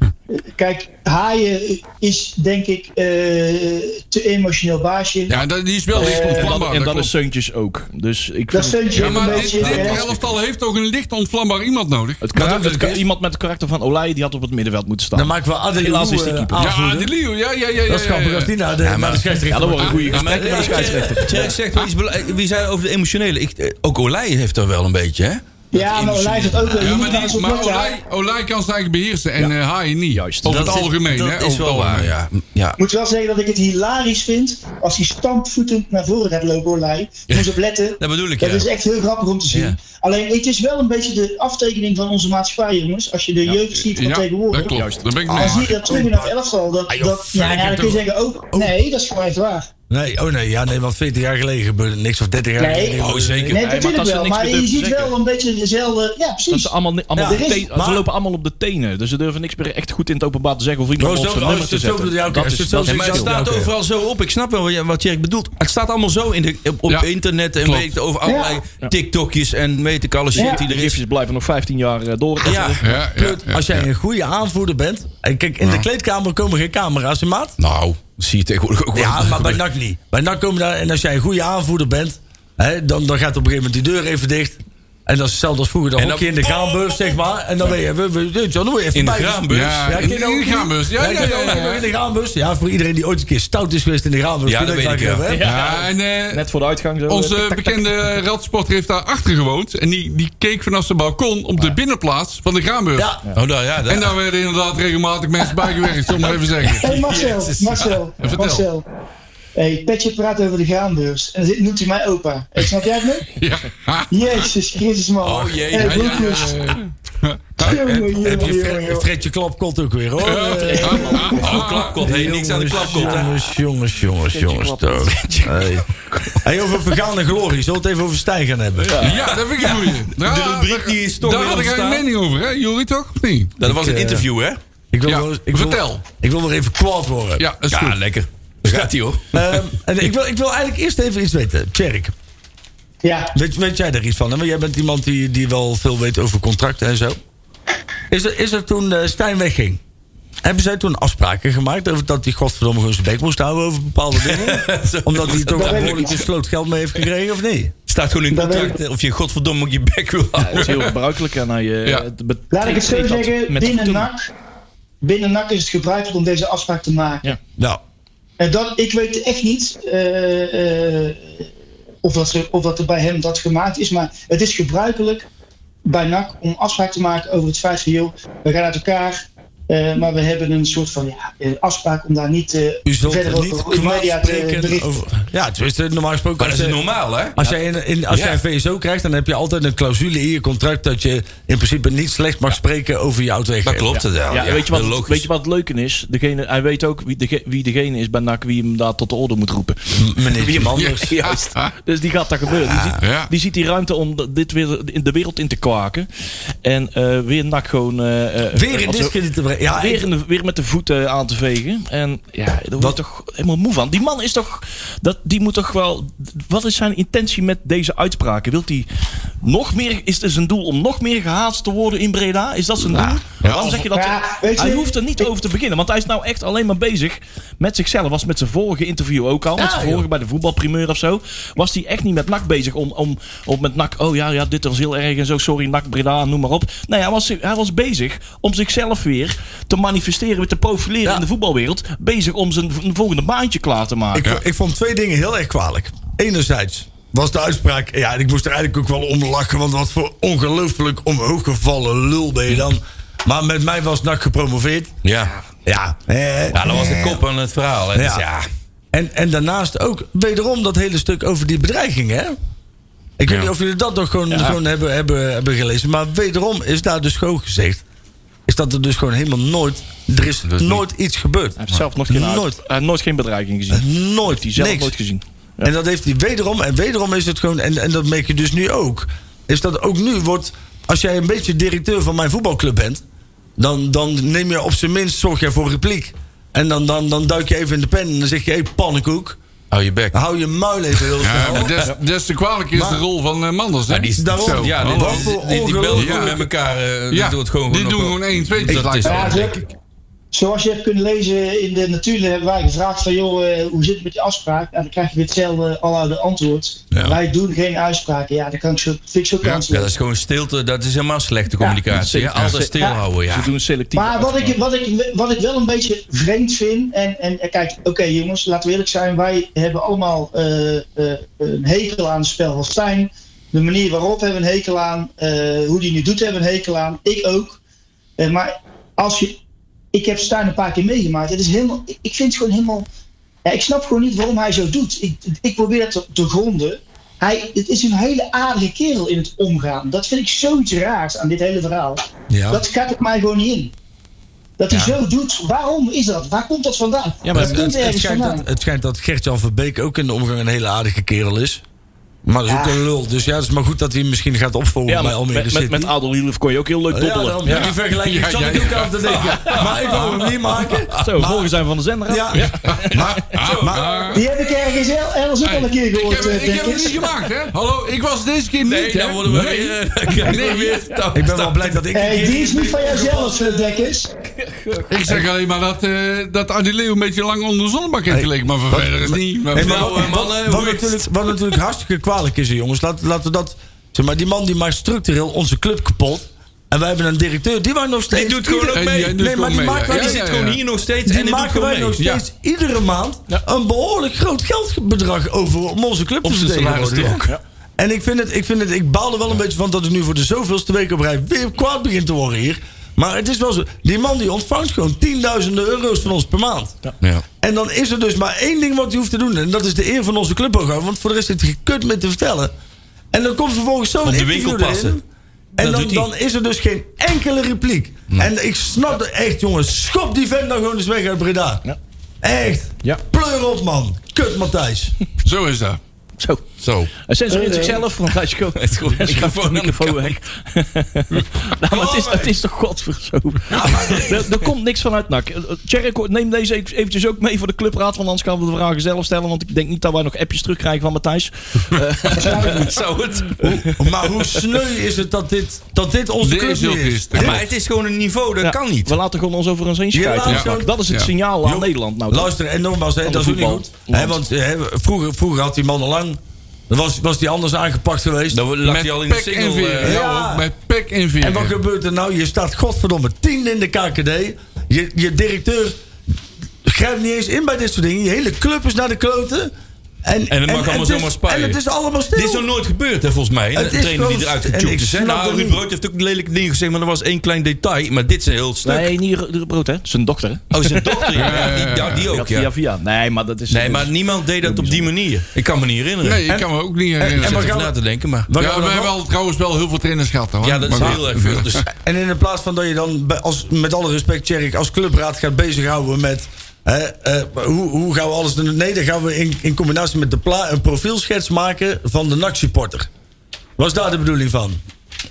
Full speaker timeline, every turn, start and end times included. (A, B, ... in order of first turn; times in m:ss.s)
0:00.3-0:05.4 A
0:05.3-0:07.1 B
0:05.9-0:06.6 A
0:05.9-0:10.1 C
0:08.5-0:10.1 A
0:08.9-0:12.2 B
0:12.2-0:16.7 C
0:12.3-0:13.0 D
0:15.1-0:17.1 D
0:16.6-0:18.5 B
0:17.9-0:21.4 D
0:18.8-0:19.4 E
0:19.5-0:21.6 C
0:19.8-0:20.6 B
0:20.1-0:27.1 E
0:25.7-0:28.0 A
0:26.7-0:32.1 B
0:30.1-0:30.9 C
0:30.5-0:32.8 E
0:32.8-0:44.8 A
0:37.3-0:38.7 E
0:39.5-0:39.8 E
0:43.7-0:45.8 B
0:44.6-0:45.3 C
0:45.3-0:46.3 D
0:45.3-0:49.7 A
0:46.9-0:48.8 D
0:49.9-0:53.6 D
0:52.6-0:53.0 A
0:53.0-0:53.6 E
0:53.5-0:55.2 C
0:53.5-0:57.6 A
0:56.5-1:03.5 C
0:57.2-0:58.1 D
1:01.0-1:03.7 D
1:02.8-1:11.0 E
1:07.6-1:08.0 B
1:08.2-1:08.6 A
1:10.4-1:12.8 C
1:10.4-1:10.6 A
1:12.4-1:12.8 E
1:12.8-1:13.9 B
1:13.0-1:17.6 D
1:17.6-1:19.6 E
1:18.9-1:35.5 D
1:26.0-1:27.0 E
1:28.9-1:30.0 E
1:29.5-1:31.9 B
1:34.4-1:35.3 E
1:35.3-1:38.2 C
1:35.4-1:36.4 B
1:37.1-1:43.1 B
1:43.4-1:44.2 E
1:43.9-1:47.1 B
1:46.6-1:48.0 E
1:46.8-1:48.8 A
1:48.2-1:48.7 B
1:49.6-1:53.3 A
1:53.3-1:54.5 B
1:54.1-1:56.6 A
1:55.2-1:56.6 E
1:55.7-1:57.7 B
1:57.6-1:59.1 A
1:57.6-2:01.2 D
2:00.2-2:02.0 B
2:00.6-2:01.7 C
2:01.4-2:03.3 E
2:02.0-2:05.9 D
2:02.7-2:03.4 C
2:04.3-2:06.4 C
2:06.4-2:09.1 D
2:08.8-2:09.3 C
2:09.0-2:13.5 B
2:09.1-2:12.1 E
2:13.6-2:14.6 E
2:13.6-2:14.3 D
2:14.9-2:17.4 D
2:15.1-2:16.0 B
2:17.4-2:18.0 B
2:17.7-2:19.6 E
2:18.6-2:22.1 D
2:23.0-2:23.3 A
2:23.3-2:27.2 D
2:28.1-2:29.8 D
2:30.4-2:37.7 D
2:34.1-2:36.1 E
2:35.5-2:36.2 A
2:37.9-2:40.8 E
2:38.3-2:38.8 A
2:40.4-2:44.1 C
2:40.6-2:40.9 B
2:42.5-2:44.3 A
2:45.0-2:47.3 A
2:48.4-2:51.5 A
2:52.0-2:55.3 A
2:55.8-3:05.0 A
3:02.8-3:06.8 D
3:06.4-3:07.4 E
3:07.3-3:14.0 D
3:08.1-3:08.4 E
3:13.6-3:15.3 E
3:14.0-3:26.1 C
3:19.9-3:21.1 D
3:20.8-3:21.7 B
3:22.6-3:22.9 D
3:23.0-3:23.3 B
3:26.6-3:29.2 C
3:28.5-3:30.1 D
3:29.7-3:38.9 C
3:39.4-4:04.3 C
3:42.8-3:43.7 D
3:43.7-3:45.3 A
3:49.6-3:50.1 D
4:04.1-4:14.9 D
4:15.0-4:15.4 E
4:15.7-4:17.2 D
4:16.5-4:18.4 E
4:17.9-4:18.2 D
4:18.9-4:22.4 D
4:23.2-4:27.8 D
4:24.3-4:24.6 C
4:28.5-4:32.6 D
4:30.4-4:30.8 E
4:31.6-4:35.7 C
4:33.7-4:34.9 D
4:35.6-4:43.0 D
4:43.6-4:49.4 D
4:49.7-4:50.2 E
4:50.1-4:51.8 D
4:51.2-4:55.3 B
4:52.7-4:53.0 D
4:53.9-4:59.5 E
4:54.2-4:56.4 D
4:55.9-4:56.4 B
4:57.1-4:59.6 B
4:58.7-4:59.0 D
4:59.0-4:59.6 A
5:00.3-5:09.9 A
5:09.7-5:13.5 E
5:11.9-5:14.6 C
5:13.9-5:27.6 A
5:28.2-5:29.4 A
5:29.9-5:32.9 A
5:33.4-5:43.7 A
5:42.3-5:42.6 D
5:44.6-5:48.4 A
5:44.7-5:45.0 D
5:47.2-5:47.7 C
5:47.3-5:51.6 D
5:52.2-5:55.9 D
5:52.5-5:52.8 A
5:54.9-5:57.7 C
5:56.9-6:01.5 D
5:57.5-5:59.5 B
5:59.0-6:01.0 E
6:01.0-6:03.2 C
6:02.1-6:03.9 D
6:02.6-6:04.3 B
6:03.3-6:04.2 E
6:04.1-6:07.1 A
6:05.4-6:11.0 B
6:08.6-6:11.8 E
6:11.1-6:13.9 D
6:11.9-6:14.1 A
6:14.4-6:14.9 C
6:14.9-6:20.1 B
6:18.1-6:30.2 D
6:19.6-6:21.1 E
6:28.1-6:29.2 E
6:28.7-6:30.6 B
6:29.9-6:32.0 E
6:31.1-6:46.8 D
6:32.0-6:32.2 B
6:36.2-6:37.3 E
6:47.4-6:52.5 D
6:53.1-6:55.0 D
6:54.0-6:55.0 E
6:55.6-7:01.6 D
6:55.6-6:56.1 E
7:02.2-7:04.9 D
7:05.2-7:05.8 B
7:06.6-7:06.9 E
7:07.1-7:22.7 C
7:07.3-7:07.8 A
7:08.6-7:10.2 E
7:11.7-7:12.3 D
7:11.8-7:12.1 E
7:13.5-7:14.1 D
7:13.6-7:14.0 E
7:22.1-7:23.7 E
7:22.2-7:22.7 A
7:23.4-7:27.4 D
7:26.2-7:27.4 B
7:27.1-7:29.0 E
7:28.4-7:32.3 C
7:29.9-7:30.8 D
7:30.2-7:31.1 B
7:31.4-7:38.4 D
7:33.0-7:34.2 C
7:38.3-7:40.0 E
7:38.6-7:41.6 B
7:39.8-7:40.5 D
7:41.2-7:45.8 D
7:46.6-7:49.5 D
7:50.0-7:52.5 D
7:50.3-7:51.6 E
7:52.1-7:58.9 E
7:53.5-7:55.6 D
7:58.6-8:01.4 C
8:00.5-8:02.5 E
8:01.2-8:02.1 B
8:02.1-8:04.9 C
8:03.5-8:06.2 E
8:06.0-8:07.6 B
8:06.3-8:07.8 D
8:07.2-8:08.3 E
8:08.3-8:09.0 D
8:08.4-8:11.6 B
8:10.4-8:11.6 E
8:10.8-8:11.0 D
8:11.7-8:22.9 D
8:23.6-8:24.6 D